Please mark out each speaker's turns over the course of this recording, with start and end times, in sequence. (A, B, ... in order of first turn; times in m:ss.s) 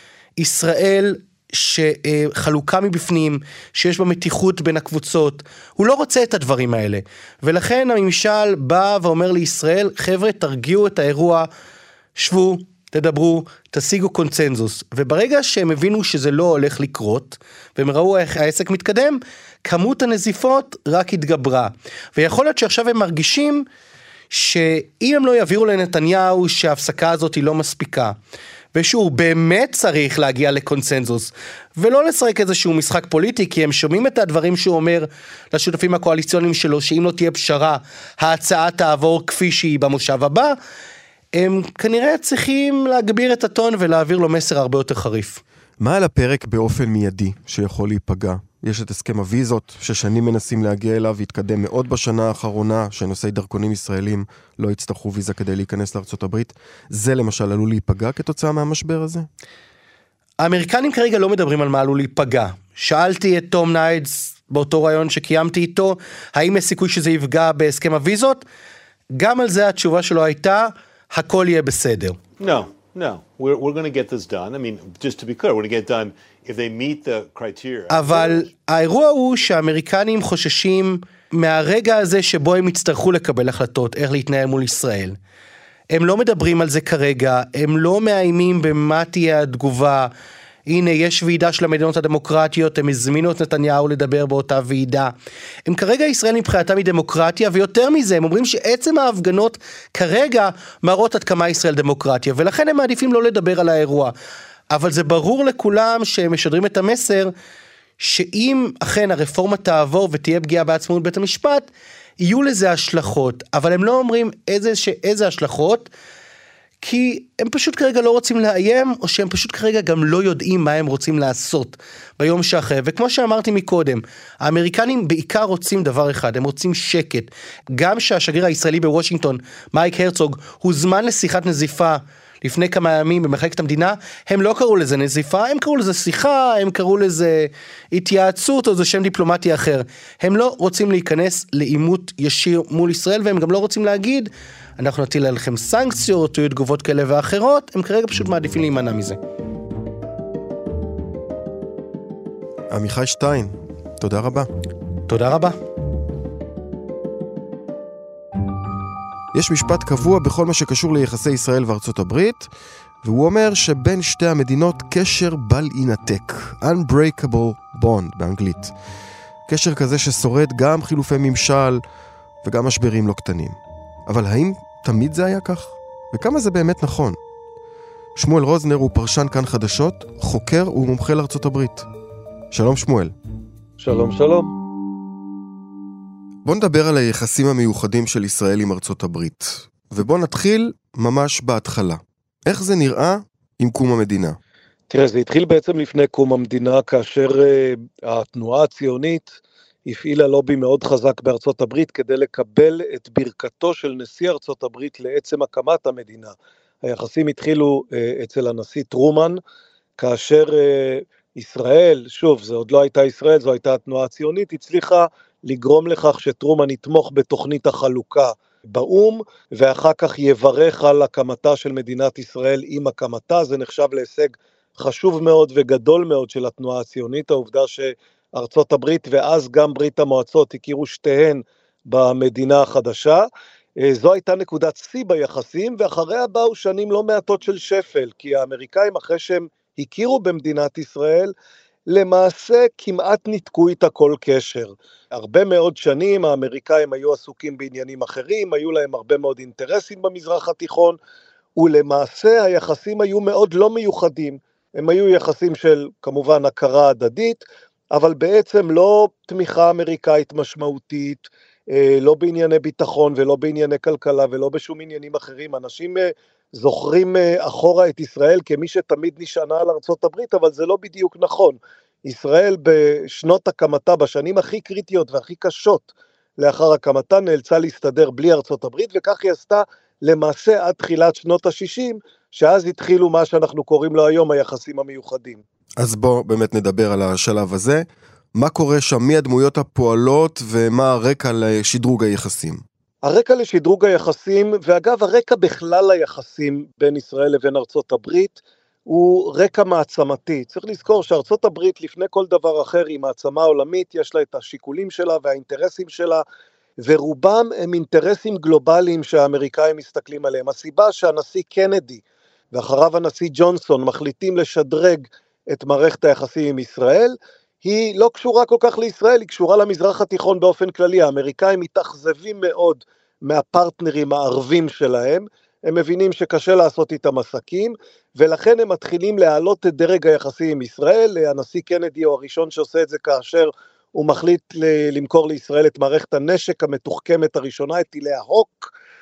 0:00.4-0:11.5 A
0:12.2-0:23.7 A
0:24.3-0:28.2 A
0:28.7-0:40.6 A
0:41.3-0:45.4 A
0:45.8-0:59.3 B
1:00.4-1:08.4 A
1:09.2-1:12.2 A
1:12.4-1:18.5 C
1:17.9-1:25.2 A
1:25.9-1:30.1 A
1:30.7-1:35.1 A
1:35.6-1:44.1 A
1:44.7-1:47.3 A
1:48.0-1:51.7 A
1:52.2-1:55.9 A
1:56.8-2:29.2 A
2:32.7-2:34.5 B
2:35.1-2:35.6 A
2:39.3-2:42.5 B
2:43.0-2:48.7 B
2:49.5-2:51.8 B
2:52.4-2:57.2 B
2:58.2-3:01.9 B
3:02.5-3:03.1 B
3:03.8-3:04.5 D
3:06.4-3:14.4 B
3:14.9-3:29.4 D
3:30.0-3:53.3 D
3:53.8-4:01.3 D
4:01.9-4:11.0 D
4:11.6-4:45.4 D
4:45.8-4:52.6 B
4:53.0-5:06.2 D
5:06.8-5:38.7 D